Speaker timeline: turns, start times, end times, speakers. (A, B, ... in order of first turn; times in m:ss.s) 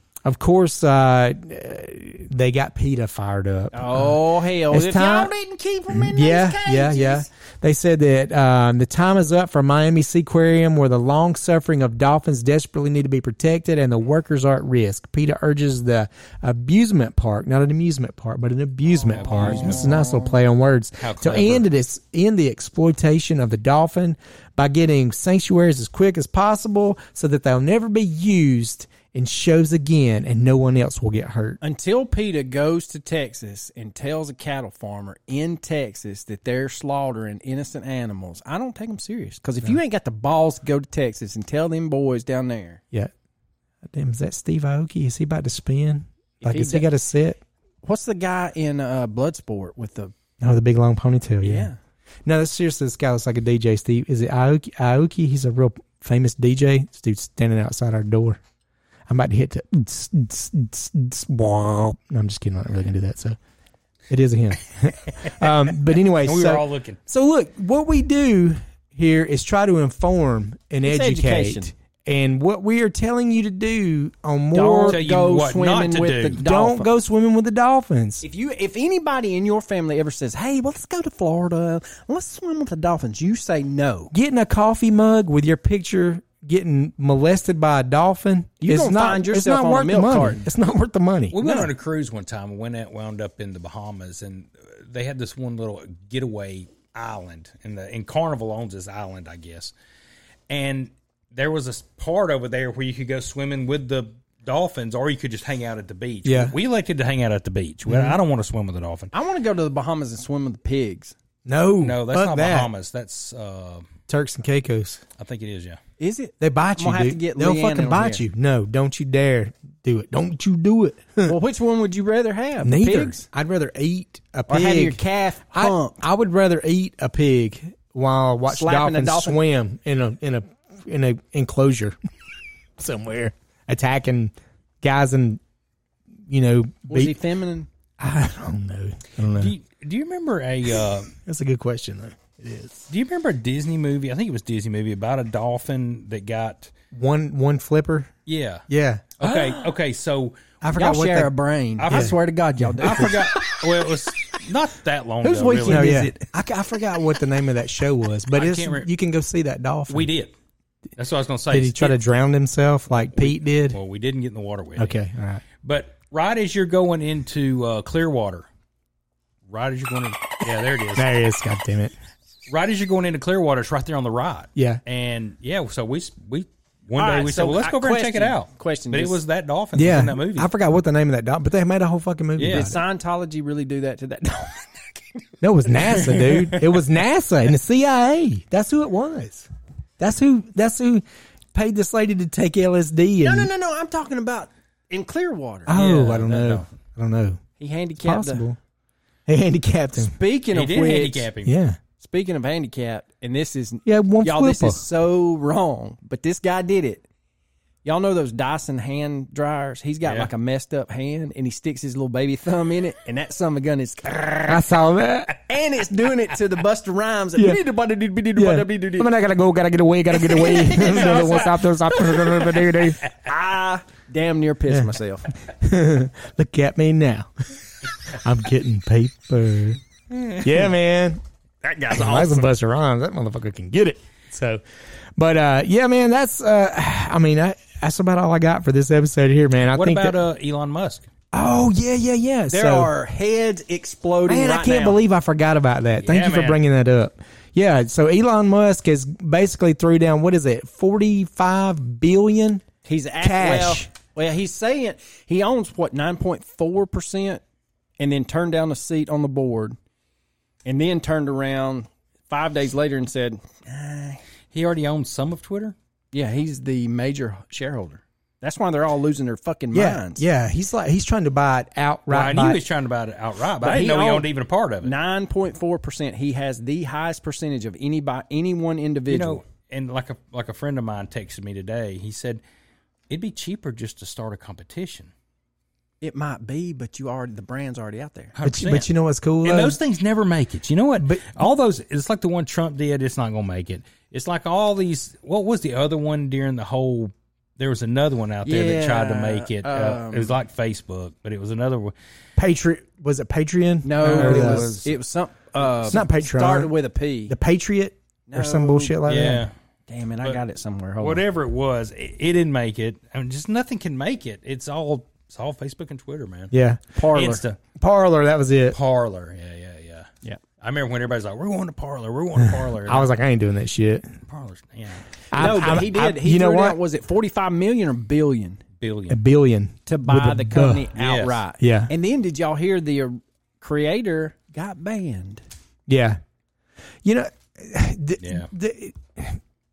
0:00.2-0:05.3 A
0:03.7-0:07.3 B
0:05.9-0:31.6 A
0:19.0-0:19.9 C
0:19.0-0:20.4 B
0:21.0-0:21.7 C
0:31.6-0:42.8 B
0:43.8-0:47.4 A
0:46.4-0:46.9 B
0:47.8-0:50.1 B
0:50.4-0:51.7 A
0:51.4-0:51.8 B
0:52.3-0:58.4 A
0:59.1-1:03.4 A
1:04.1-1:15.0 A
1:06.2-1:07.0 C
1:10.8-1:11.7 B
1:14.5-1:16.9 B
1:14.9-1:16.4 C
1:16.4-1:18.2 A
1:18.2-1:24.1 B
1:24.1-1:31.7 A
1:28.6-1:30.5 B
1:31.3-1:39.7 C
1:40.5-1:49.1 C
1:46.2-1:46.5 A
1:47.9-1:48.2 A
1:49.1-1:51.1 B
1:51.5-1:52.7 A
1:51.8-1:53.9 C
1:54.1-1:55.0 A
1:55.2-1:55.8 C
1:56.0-1:58.2 B
1:56.4-2:01.4 A
2:01.3-2:03.2 B
2:02.6-2:12.0 A
2:04.5-2:06.0 B
2:08.5-2:09.4 B
2:12.8-2:15.4 A
2:16.3-2:17.2 A
2:16.9-2:17.7 B
2:18.0-2:19.5 A
2:19.4-2:21.1 C
2:21.2-2:22.9 A
2:22.9-2:26.7 C
2:26.9-2:28.1 A
2:28.3-2:28.6 C
2:28.7-2:29.1 A
2:29.2-2:30.4 C
2:29.2-2:29.7 B
2:30.6-2:31.3 A
2:30.7-2:33.9 B
2:31.8-2:32.2 C
2:31.9-2:33.1 A
2:32.8-2:36.0 C
2:35.2-2:36.4 B
2:35.7-2:40.1 A
2:38.3-2:38.9 C
2:39.9-2:40.3 C
2:41.0-2:42.0 C
2:41.5-2:43.8 A
2:43.0-2:45.0 C
2:44.8-2:45.4 A
2:45.6-2:48.5 C
2:49.5-2:51.1 C
2:51.0-2:51.9 A
2:52.5-3:00.5 C
2:54.6-2:54.8 A
2:57.0-2:59.2 B
2:59.8-3:02.8 A
3:02.4-3:02.7 C
3:02.4-3:05.2 B
3:05.4-3:09.5 A
3:10.0-3:13.5 A
3:13.2-3:15.8 B
3:15.7-3:17.4 A
3:15.7-3:16.7 C
3:17.6-3:18.4 B
3:18.0-3:18.6 A
3:19.3-3:20.1 A
3:20.0-3:21.3 B
3:20.5-3:21.6 C
3:21.4-3:21.8 A
3:22.0-3:27.0 B
3:23.8-3:24.8 A
3:27.8-3:34.6 B
3:34.5-3:35.4 A
3:35.5-3:39.1 B
3:38.4-3:43.1 A
3:40.1-3:45.3 B
3:45.4-3:47.3 A
3:48.0-3:49.8 A
3:50.4-3:51.2 A
3:51.6-3:52.5 B
3:51.9-3:54.6 A
3:55.2-4:00.2 A
3:59.7-4:01.1 C
4:01.3-4:02.9 A
4:02.5-4:05.0 B
4:04.3-4:12.6 A
4:06.0-4:06.6 C
4:12.8-4:17.4 B
4:13.2-4:13.9 A
4:18.0-4:19.8 B
4:20.6-4:24.2 B
4:24.5-4:25.8 C
4:26.1-4:30.2 B
4:29.7-4:32.6 A
4:32.1-4:34.9 C
4:33.6-4:34.3 B
4:34.8-4:39.4 B
4:39.1-4:42.4 C
4:43.1-4:45.1 C
4:46.0-4:48.4 B
4:48.4-4:48.9 C
4:48.4-4:49.8 A
4:49.4-5:01.9 C
4:51.0-4:51.3 A
4:58.4-5:00.4 B
5:02.4-5:04.8 A
5:03.8-5:07.4 B
5:04.0-5:04.9 C
5:05.8-5:06.7 A
5:07.3-5:09.5 A
5:08.3-5:09.0 B
5:09.1-5:09.5 C
5:09.9-5:11.2 B
5:11.0-5:16.5 C
5:16.5-5:16.8 A
5:17.0-5:17.4 B
5:17.0-5:17.6 C
5:17.8-5:18.8 A
5:18.7-5:23.1 C
5:22.4-5:24.1 A
5:24.3-5:25.8 C
5:25.3-5:26.8 A
5:25.4-5:28.6 B
5:28.8-5:29.2 C
5:29.1-5:30.9 A
5:29.9-5:35.4 B
5:31.0-5:31.4 C
5:31.6-5:31.9 A
5:35.9-5:36.2 A
5:37.0-5:39.4 A
5:38.2-5:38.5 C